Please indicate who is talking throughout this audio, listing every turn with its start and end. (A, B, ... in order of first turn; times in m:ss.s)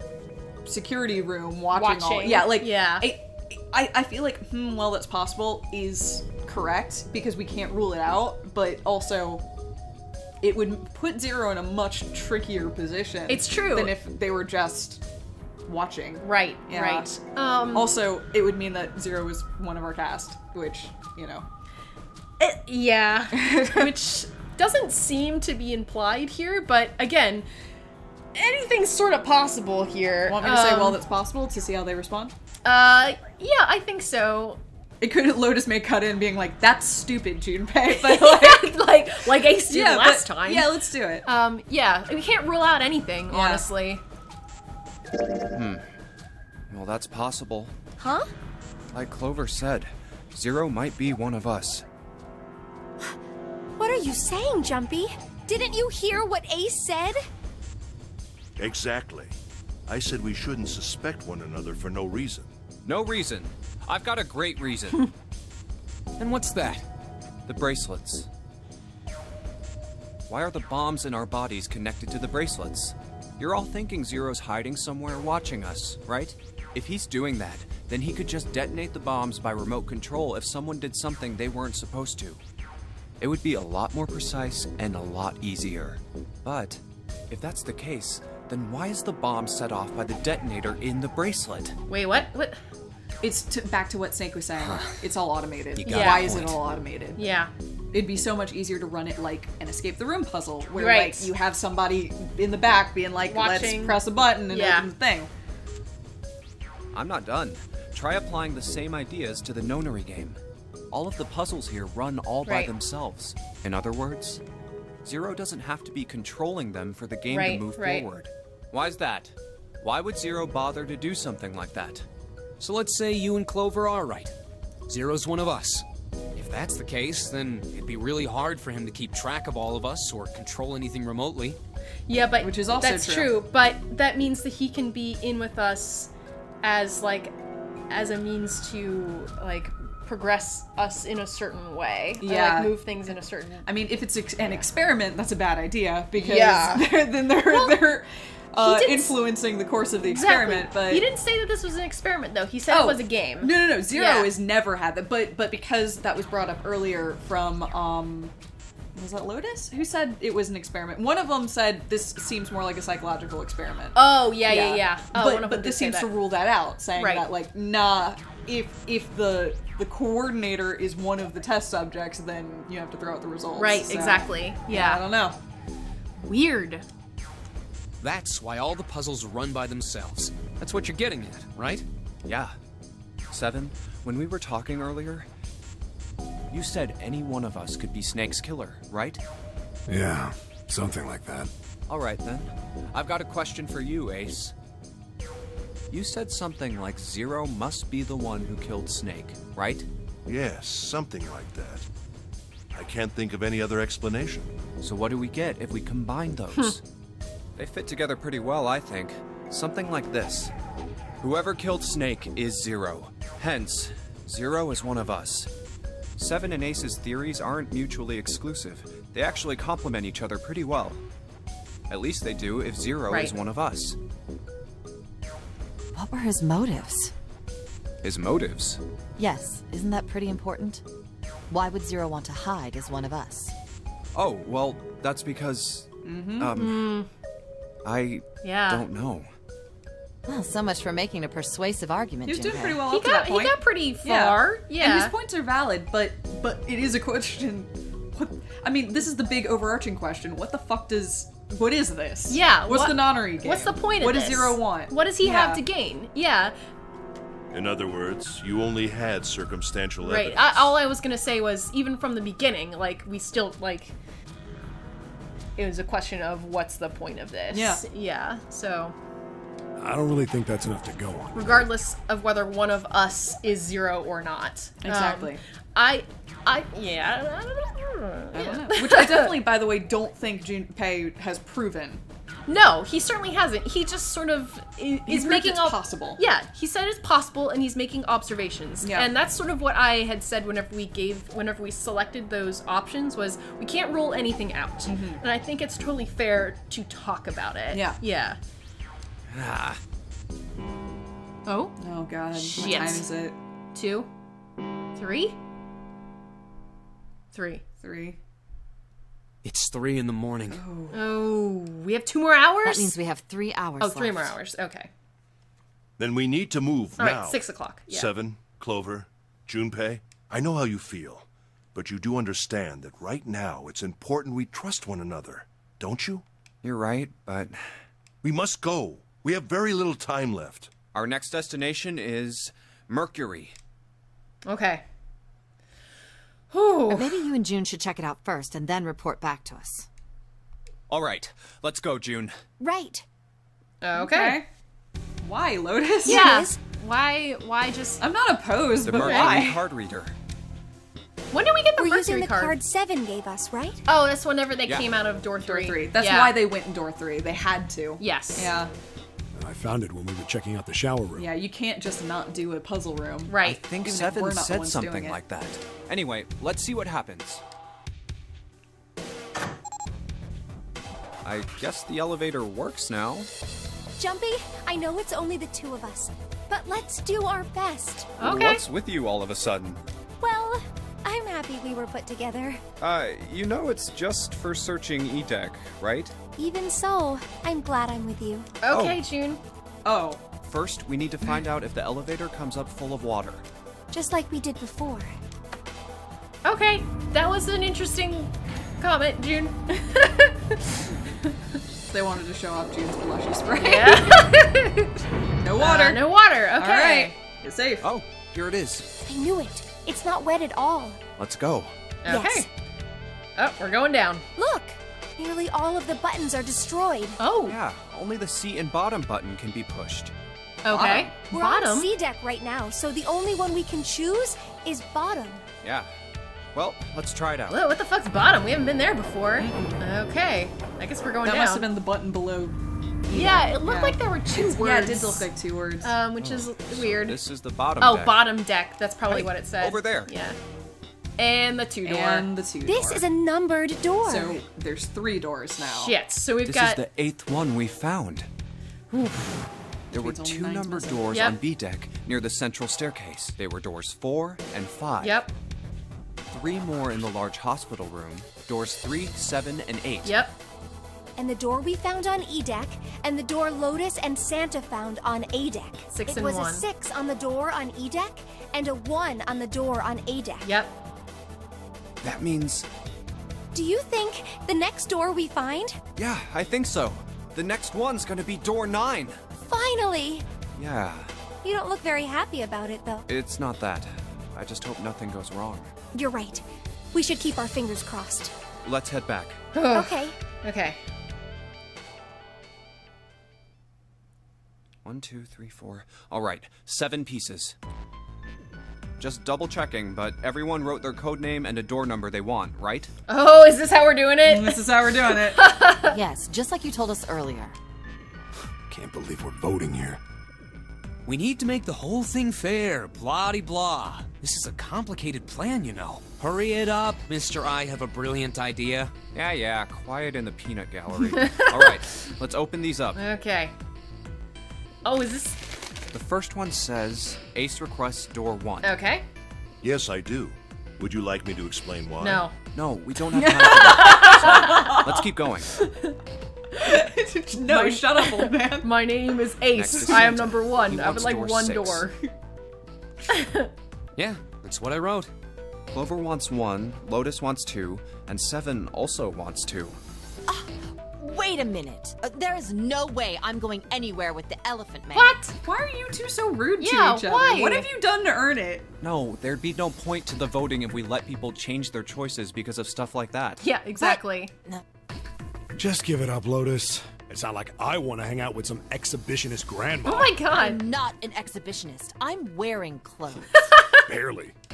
0:00.6-0:09.4 A
0:01.7-0:03.1 B
0:10.4-0:15.0 A
0:13.3-0:13.9 B
0:15.7-0:17.1 A
0:16.2-0:17.9 B
0:17.7-0:21.5 A
0:22.4-0:27.5 B
0:23.3-0:23.9 A
0:28.4-0:31.0 B
0:30.3-0:32.3 A
0:32.6-0:34.6 B
0:35.0-0:38.8 A
0:37.9-0:40.7 B
0:39.5-0:41.3 A
0:41.2-0:44.0 B
0:43.3-0:43.7 A
0:45.5-0:45.9 C
0:46.7-0:47.7 C
0:48.0-0:48.3 D
0:48.9-0:51.8 C
0:53.8-0:57.2 D
0:58.6-1:02.5 E
1:02.8-1:05.1 C
1:06.2-1:06.9 F
1:07.5-1:08.3 C
1:10.3-1:22.4 C
1:23.2-1:31.8 C
1:31.9-1:32.6 B
1:33.2-1:37.2 A
1:34.6-1:35.0 F
1:35.8-1:36.6 F
1:35.9-1:36.5 B
1:37.2-1:37.5 B
1:37.9-1:45.3 A
1:40.8-1:41.3 B
1:43.2-1:44.9 B
1:46.9-1:50.4 C
1:50.9-1:54.4 C
1:52.4-1:52.7 B
1:55.0-2:02.1 C
1:57.3-1:58.0 B
2:02.6-2:04.3 F
2:04.9-2:05.8 F
2:06.4-2:11.6 F
2:12.1-2:16.1 B
2:12.4-2:13.3 A
2:16.6-2:17.4 B
2:17.9-2:23.7 B
2:22.2-2:22.8 A
2:23.6-2:31.1 A
2:24.4-2:24.6 B
2:26.2-2:26.9 B
2:27.4-2:27.8 B
2:28.6-2:29.2 B
2:30.0-2:34.3 B
2:32.7-2:38.3 A
2:39.0-2:55.4 A
2:44.0-2:46.1 B
2:47.0-2:47.3 B
2:53.6-2:55.0 B
2:56.2-2:56.8 B
2:58.0-3:01.8 F
3:02.3-3:02.6 C
3:03.3-3:05.3 C
3:06.5-3:09.2 C
3:09.9-3:11.5 G
3:11.9-3:14.5 C
3:15.9-3:19.9 C
3:20.3-3:21.9 E
3:22.7-3:24.5 E
3:24.8-3:26.8 C
3:27.6-3:30.5 C
3:31.2-3:35.5 C
3:36.2-3:41.0 C
3:41.9-3:44.0 C
3:43.1-3:43.3 B
3:45.9-3:47.1 H
3:48.0-3:48.8 C
3:49.2-3:50.8 H
3:51.5-3:53.5 H
3:54.2-3:56.8 C
3:56.0-3:56.5 A
3:56.6-3:57.1 B
3:57.8-3:59.3 C
3:58.4-3:58.8 B
4:00.3-4:02.8 H
4:02.3-4:15.6 A
4:02.9-4:05.1 B
4:12.3-4:16.6 B
4:17.5-4:20.7 E
4:20.0-4:24.0 B
4:25.6-4:29.0 B
4:27.5-4:27.8 A
4:29.8-4:31.7 G
4:31.4-4:39.4 B
4:34.8-4:35.4 A
4:38.3-4:42.0 A
4:42.5-4:58.4 B
4:45.1-4:46.2 A
4:48.8-4:49.1 A
4:54.9-4:55.2 A
4:57.7-4:58.0 A
4:59.3-4:59.8 C
5:01.5-5:01.8 B
5:01.8-5:03.4 A
5:02.3-5:03.1 B
5:03.8-5:04.1 B
5:05.0-5:05.4 B
5:07.3-5:07.6 B
5:07.8-5:08.2 A
5:09.4-5:10.6 F
5:10.5-5:11.0 A
5:10.9-5:13.0 B
5:12.6-5:14.3 H
5:13.8-5:14.9 B
5:16.0-5:26.2 E
5:17.0-5:18.1 B
5:26.6-5:27.7 C
5:28.2-5:30.7 E
5:30.9-5:33.6 C
5:34.5-5:34.8 B
5:36.5-5:37.2 B
5:36.9-5:39.9 H
5:40.9-5:42.4 C
5:42.6-5:43.0 D
5:43.8-5:44.4 B
5:43.9-5:44.5 A
5:45.2-5:46.3 A
5:46.0-5:46.6 D
5:46.0-5:48.0 B
5:48.0-5:49.6 A
5:48.8-5:50.2 C
5:49.0-5:49.4 B
5:51.3-5:52.6 B
5:51.8-5:53.8 D
5:53.9-5:56.4 B
5:55.4-5:58.7 A
5:58.0-5:58.5 B
5:59.3-6:01.3 G
6:01.2-6:05.2 A
6:03.3-6:03.6 B
6:03.4-6:07.4 C
6:11.2-6:13.3 C
6:14.0-6:18.2 D
6:18.2-6:18.6 B
6:18.2-6:19.8 C
6:20.2-6:22.6 D
6:22.8-6:26.2 C
6:26.4-6:28.5 D
6:28.6-6:29.4 B
6:28.7-6:29.0 C
6:29.8-6:30.2 A
6:30.5-6:33.4 C
6:33.9-6:35.1 D
6:36.4-6:41.4 B
6:41.9-6:44.2 A
6:43.6-6:44.9 B
6:45.4-6:46.0 A
6:45.6-6:47.1 B
6:46.6-6:47.9 A
6:47.8-6:48.9 C
6:49.0-6:51.0 D
6:51.2-6:51.7 C
6:52.0-6:52.5 B
6:52.1-6:52.5 D
6:53.4-6:54.2 B
6:54.4-6:57.2 D
6:57.2-6:57.6 B
6:57.4-7:00.1 C
7:00.6-7:01.9 B
7:00.7-7:01.1 C
7:01.3-7:05.4 D
7:05.6-7:05.9 C
7:06.6-7:07.6 C
7:07.5-7:11.7 B
7:09.4-7:09.8 A
7:11.2-7:15.9 A
7:13.1-7:15.3 B
7:15.8-7:17.2 B
7:16.2-7:18.3 C
7:17.8-7:20.4 B
7:19.1-7:20.1 C
7:21.2-7:22.3 B
7:21.8-7:23.0 A
7:22.6-7:24.4 D
7:24.0-7:26.0 A
7:25.6-7:26.8 B
7:26.4-7:28.3 C
7:28.9-7:29.5 B
7:29.9-7:35.2 C
7:29.9-7:31.3 A
7:35.0-7:35.3 B
7:36.3-7:40.2 C
7:40.0-7:40.4 B
7:41.2-7:50.5 D
7:45.9-7:46.7 B
7:50.4-7:50.8 B
7:52.0-7:52.7 C
7:53.5-7:55.8 D
7:56.0-7:59.2 C
7:59.5-8:00.3 D
8:00.6-8:01.1 C
8:01.4-8:03.0 D
8:03.1-8:05.7 C
8:05.9-8:08.3 D
8:08.6-8:09.4 C
8:09.5-8:10.8 B
8:09.7-8:10.2 D
8:14.8-8:17.6 C
8:19.0-8:22.9 C
8:23.1-8:26.0 B
8:24.2-8:25.4 A
8:25.9-8:27.6 H
8:28.7-8:30.0 G
8:31.1-8:38.9 F
8:39.1-8:43.0 C
8:41.1-8:41.8 B
8:43.0-8:43.5 B
8:44.8-8:45.4 B
8:45.9-8:48.7 C
8:48.6-8:49.0 B
8:49.6-8:52.2 E
8:52.0-8:52.3 B
8:52.5-8:55.6 C
8:53.2-8:55.0 A
8:53.6-8:54.8 B
8:55.5-8:56.0 B
8:56.5-8:56.8 B
8:56.6-8:58.7 A
8:57.4-9:02.0 B
8:59.6-9:01.9 C
8:59.8-9:00.1 A
9:03.1-9:03.5 B
9:04.0-9:05.1 F
9:05.7-9:09.8 C
9:10.3-9:15.2 H
9:14.9-9:15.4 B
9:15.4-9:18.7 A
9:16.6-9:17.7 B
9:18.8-9:23.4 C
9:23.4-9:24.3 B
9:23.8-9:24.6 H
9:25.5-9:30.2 G
9:29.9-9:30.6 B
9:30.2-9:33.5 H
9:33.5-9:33.8 B
9:33.8-9:34.4 G